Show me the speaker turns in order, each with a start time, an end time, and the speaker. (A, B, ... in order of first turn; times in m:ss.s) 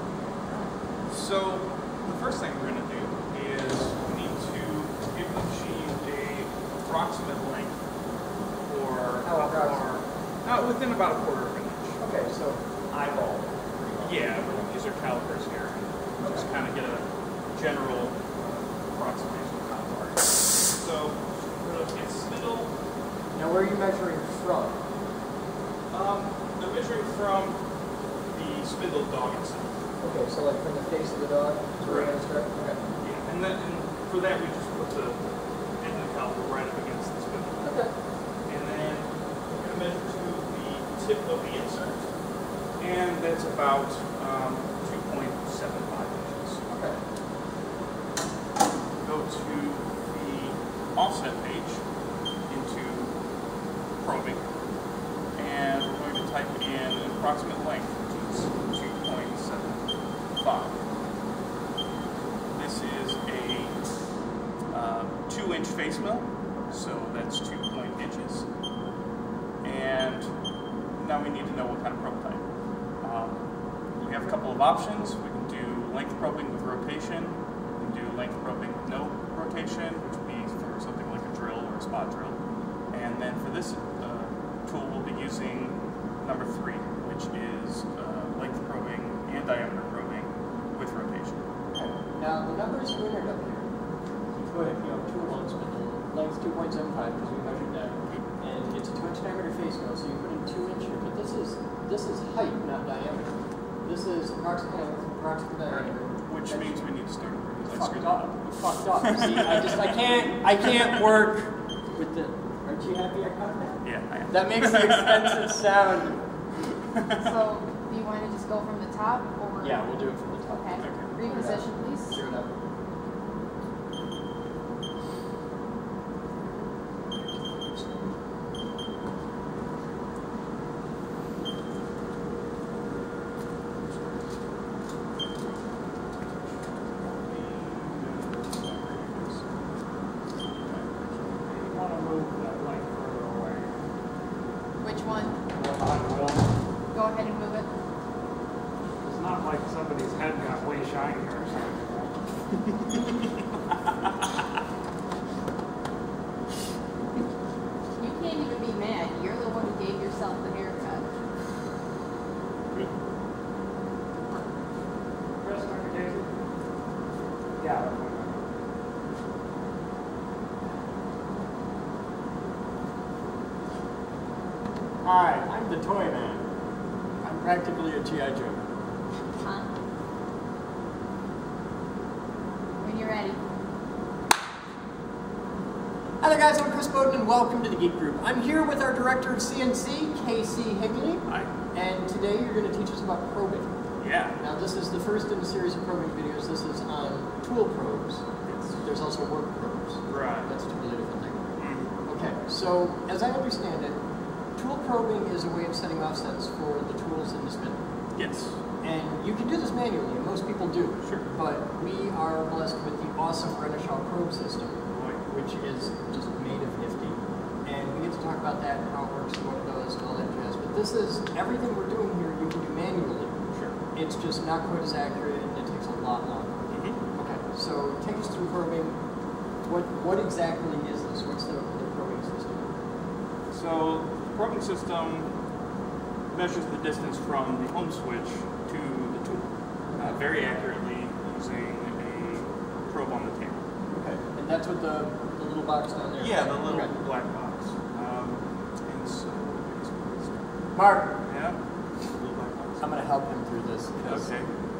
0:01.1-0:07.8 A
0:08.6-0:12.0 A
0:09.2-0:09.9 B
0:12.0-0:14.5 B
0:14.0-0:22.7 A
0:16.2-0:16.5 B
0:23.3-0:24.8 B
0:25.9-0:27.6 A
0:28.3-0:29.8 A
0:30.0-0:32.8 B
0:31.8-0:32.1 A
0:33.0-0:35.2 A
0:35.8-0:37.7 A
0:37.6-0:37.9 B
0:38.5-0:42.0 A
0:42.8-0:46.7 A
0:46.7-0:47.0 B
0:49.0-0:51.8 A
0:52.5-0:53.1 A
0:54.0-0:54.4 A
0:55.3-1:00.8 A
1:02.5-1:03.8 A
1:04.7-1:08.4 A
1:09.6-1:10.3 A
1:10.9-1:12.4 A
1:13.0-1:13.4 A
1:14.0-1:22.4 A
1:22.9-1:31.4 A
1:31.7-1:33.7 B
1:34.5-1:46.8 B
1:46.2-1:48.3 A
1:47.7-1:56.2 B
1:49.0-1:49.9 A
1:53.8-1:55.6 A
1:57.1-1:59.8 C
1:59.6-2:02.5 B
2:00.5-2:02.1 C
2:00.8-2:01.1 A
2:17.0-2:19.4 A
2:20.5-2:21.3 A
2:21.4-2:23.7 D
2:24.8-2:25.4 C
2:25.5-2:26.5 D
2:26.9-2:27.7 C
2:29.0-2:32.1 D
2:38.0-2:41.0 C
2:45.4-2:46.3 D
2:47.6-2:48.4 D
2:55.0-2:56.4 B
2:57.2-2:58.6 B
2:59.4-2:59.7 C
3:02.8-3:03.4 C
3:06.2-3:13.8 B
3:11.3-3:11.5 A
3:14.0-3:14.4 A
3:14.4-3:18.2 B
3:18.4-3:18.8 A
3:18.8-3:24.0 B
3:20.0-3:20.5 A
3:21.6-3:21.9 A
3:24.6-3:27.8 B
3:28.1-3:28.6 A
3:28.8-3:43.4 B
3:31.0-3:31.3 A
3:34.9-3:35.3 A
3:43.5-3:43.8 A
3:43.9-3:46.6 B
3:46.7-3:47.0 A
3:47.1-3:49.0 B
3:49.6-3:52.7 B
3:53.5-3:55.3 A
3:56.3-4:03.6 A
4:03.9-4:06.9 B
4:06.2-4:10.5 A
4:10.7-4:11.2 B
4:11.2-4:11.6 A
4:12.1-4:13.0 A
4:12.8-4:14.3 B
4:14.1-4:14.5 A